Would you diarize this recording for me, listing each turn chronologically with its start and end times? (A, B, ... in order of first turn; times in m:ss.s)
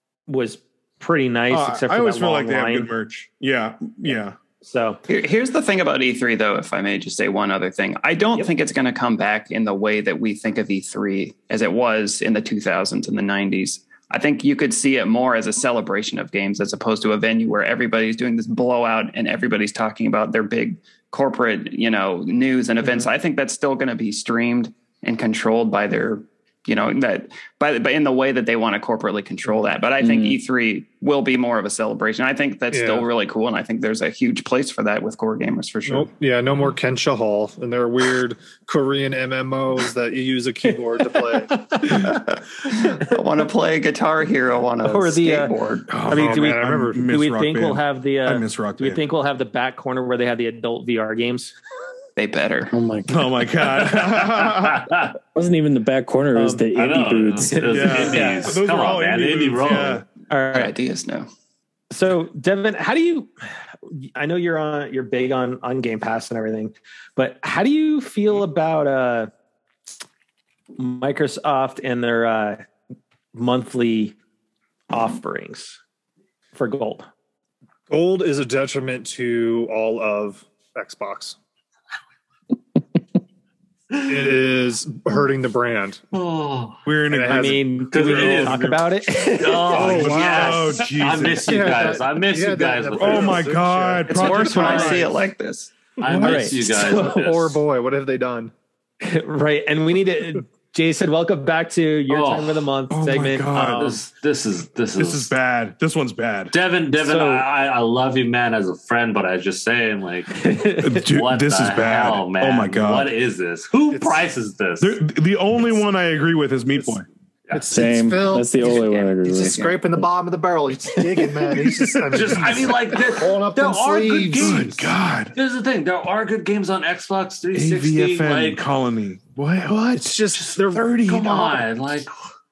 0:00.3-0:02.9 A
0:01.5-0:04.4 B
0:04.6-0:05.0 A
0:05.1-0:36.1 C
0:30.0-0:30.4 D
0:32.7-0:33.1 E
0:35.9-0:41.6 E
0:41.6-0:42.1 A
0:41.9-0:46.0 C
0:44.8-0:45.5 A
0:45.9-0:49.0 B
0:46.0-0:47.1 E
0:46.1-0:51.5 A
0:52.2-0:52.7 C
0:52.7-0:53.4 D
0:53.1-0:55.0 B
0:53.8-0:55.1 F
0:55.3-0:58.0 D
0:56.3-0:56.7 A
0:56.7-1:00.0 F
0:57.5-0:58.5 A
0:57.7-1:00.0 B
1:00.3-1:00.7 A
1:00.5-1:01.3 C
1:01.9-1:03.3 A
1:03.8-1:09.3 A
1:10.8-1:12.6 A
1:13.3-1:14.2 A
1:14.9-1:15.8 A
1:16.5-1:17.1 A
1:17.9-1:21.4 E
1:23.9-1:24.4 F
1:24.0-1:26.0 E
1:26.1-1:26.8 F
1:26.8-1:28.9 B
1:27.1-1:27.7 E
1:27.3-1:30.1 A
1:27.9-1:33.5 F
1:29.7-1:34.9 E
1:29.8-1:31.6 B
1:33.0-1:35.1 B
1:34.1-1:35.7 C
1:34.5-1:35.0 A
1:36.0-1:37.6 F
1:36.1-1:37.2 A
1:36.1-1:38.5 E
1:39.0-1:44.0 A
1:42.1-1:42.7 F
1:42.9-1:44.0 B
1:43.8-1:45.3 F
1:45.0-1:46.5 B
1:46.5-1:55.0 F
1:47.0-1:47.4 A
1:50.4-1:51.0 A
1:50.8-1:53.1 B
1:53.9-1:54.2 E
1:54.8-1:57.0 B
1:57.5-2:04.7 E
1:57.7-1:59.8 D
2:01.6-2:02.0 B
2:02.1-2:08.6 F
2:04.3-2:05.3 B
2:07.5-2:10.2 B
2:09.9-2:10.9 E
2:10.3-2:12.1 F
2:10.7-2:11.6 B